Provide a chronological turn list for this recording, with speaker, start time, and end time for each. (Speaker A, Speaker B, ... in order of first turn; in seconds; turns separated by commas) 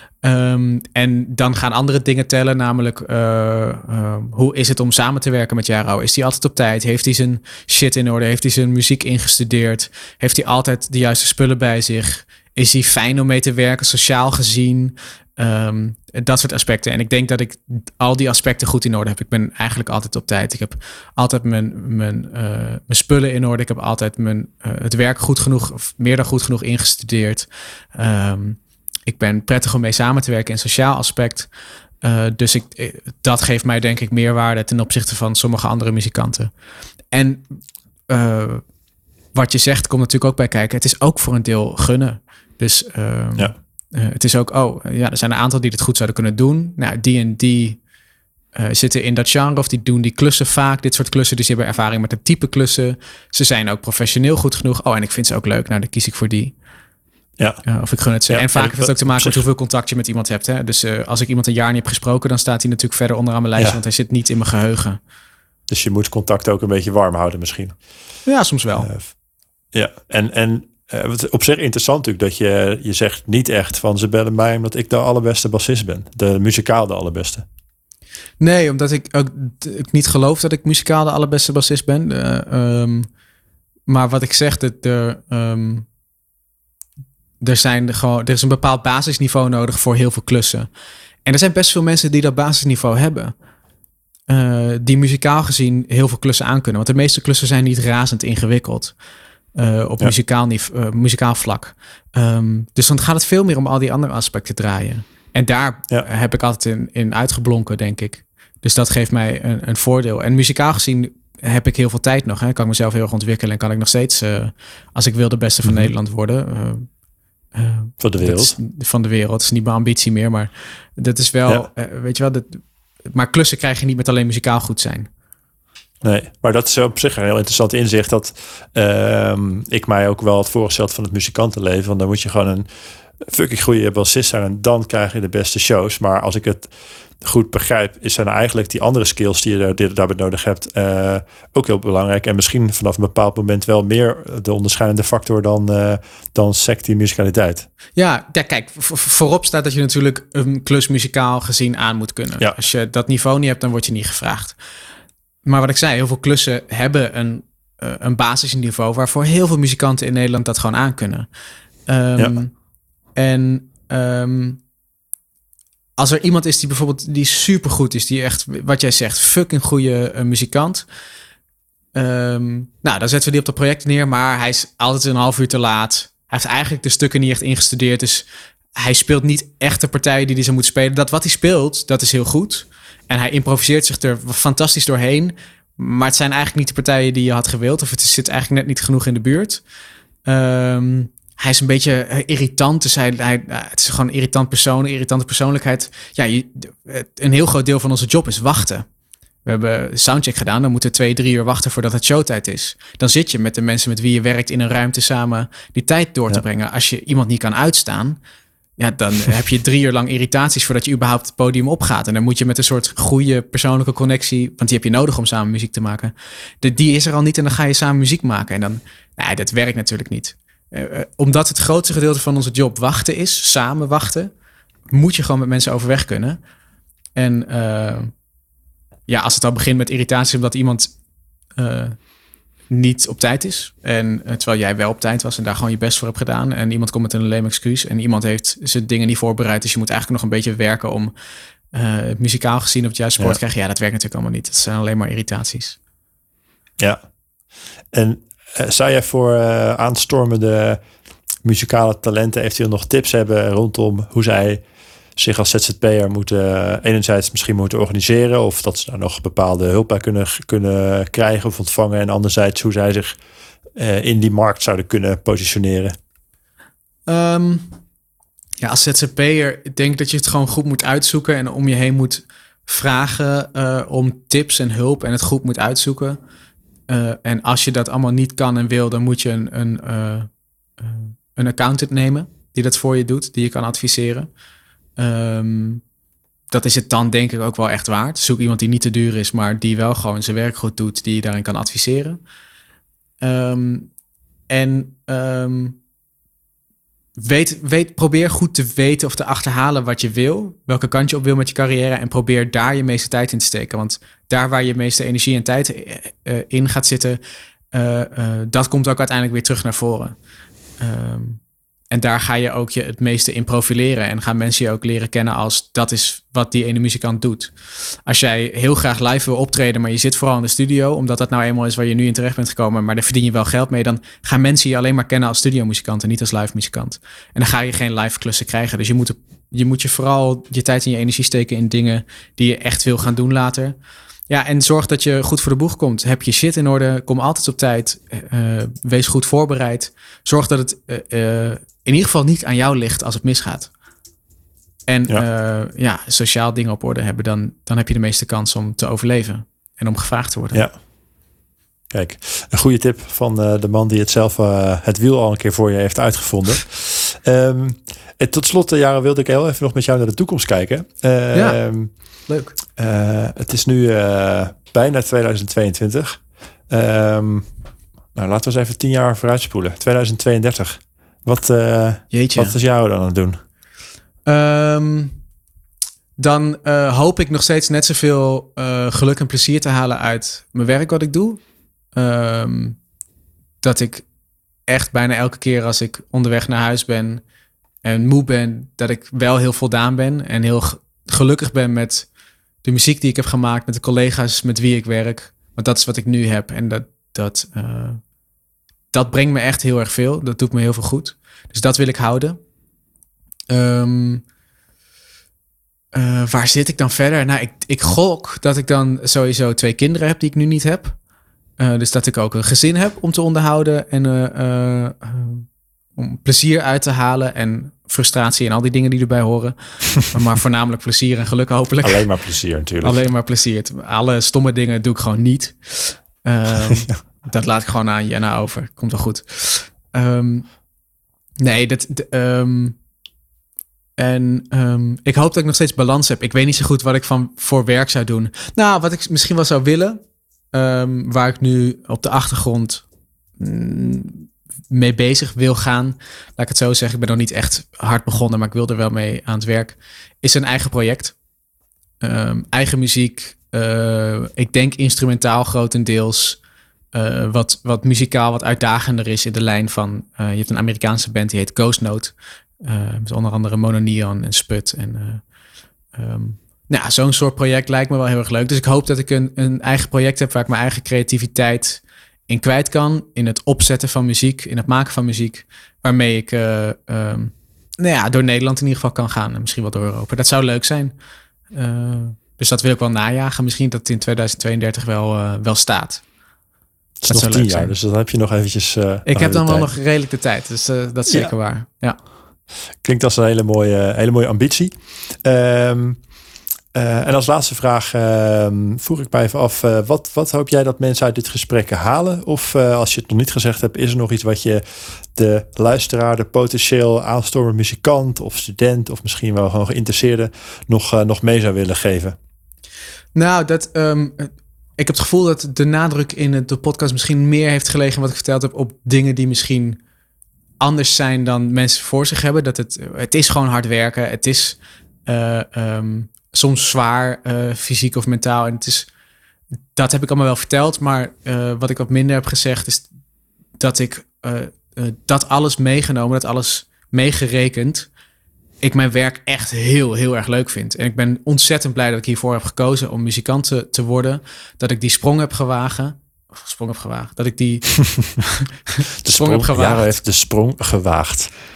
Speaker A: 0.2-31.5, Speaker A: 32.0-36.5, Speaker A: 37.1-37.5, Speaker A: 38.1-38.6, Speaker A: 39.3-47.8, Speaker A: 48.5-56.5, Speaker A: 57.7-65.0, Speaker B: 58.3-59.4, Speaker B: 65.7-67.8, Speaker A: 68.3-68.9, Speaker B: 68.8-69.1, Speaker B: 69.7-77.5, Speaker A: 78.4-83.1, Speaker A: 83.9-85.9, Speaker A: 87.4-90.7, Speaker A: 91.2-93.3, Speaker A: 94.3-98.9, Speaker A: 99.6-116.9, Speaker A: 117.5-125.1, Speaker B: 118.0-118.6, Speaker B: 126.0-132.7, Speaker B: 133.2-136.7, Speaker B: 137.2-147.7, Speaker A: 148.0-154.6, Speaker A: 155.4-161.3, Speaker A: 161.9-162.5, Speaker A: 163.2-164.6, Speaker A: 166.0-170.9, Speaker A: 171.9-178.2, Speaker A: 178.8-189.6, Speaker A: 190.3-198.9, Speaker A: 199.4-208.2, Speaker A: 208.8-224.3, Speaker A: 224.9-226.4, Speaker A: 227.2-228.1, Speaker A: 229.1-230.9, Speaker A: 231.6-232.0, Speaker A: 232.7-241.1, Speaker A: 241.7-245.8, Speaker B: 247.9-250.8, Speaker B: 251.4-254.6, Speaker B: 255.2-263.2, Speaker B: 263.8-266.0, Speaker A: 267.1-267.8, Speaker A: 268.6-276.2, Speaker A: 276.9-284.3, Speaker A: 285.0-285.8, Speaker A: 286.5-292.2, Speaker A: 293.2-293.9, Speaker A: 294.5-295.8, Speaker A: 297.2-307.2, Speaker A: 307.7-310.1, Speaker A: 310.8-317.5, Speaker A: 318.1-333.8, Speaker A: 334.3-343.7, Speaker A: 344.9-350.7, Speaker B: 351.9-361.9, Speaker A: 361.3-361.6, Speaker A: 362.3-362.6, Speaker B: 362.8-367.5, Speaker B: 368.1-373.4, Speaker A: 372.1-372.6, Speaker A: 374.3-375.2, Speaker A: 376.2-381.4, Speaker A: 381.9-382.8, Speaker A: 383.6-384.1, Speaker A: 384.7-387.2, Speaker A: 387.8-392.1, Speaker A: 392.6-398.0, Speaker A: 398.9-402.4, Speaker A: 403.5-404.2, Speaker A: 405.9-411.0, Speaker A: 411.6-422.1, Speaker B: 421.8-423.0, Speaker A: 422.8-430.5, Speaker A: 431.4-432.8, Speaker A: 434.0-440.0, Speaker A: 440.5-442.9, Speaker A: 443.4-451.2, Speaker A: 452.0-456.4, Speaker A: 456.9-465.2, Speaker A: 465.9-480.9, Speaker A: 481.5-486.0, Speaker B: 487.0-489.7, Speaker A: 487.1-487.8, Speaker A: 489.1-492.0, Speaker B: 492.8-496.0, Speaker B: 496.7-504.6, Speaker B: 505.1-512.2, Speaker A: 513.1-519.8, Speaker A: 520.6-528.9, Speaker A: 529.7-532.9, Speaker A: 533.6-537.9, Speaker A: 538.6-550.0, Speaker B: 549.0-551.3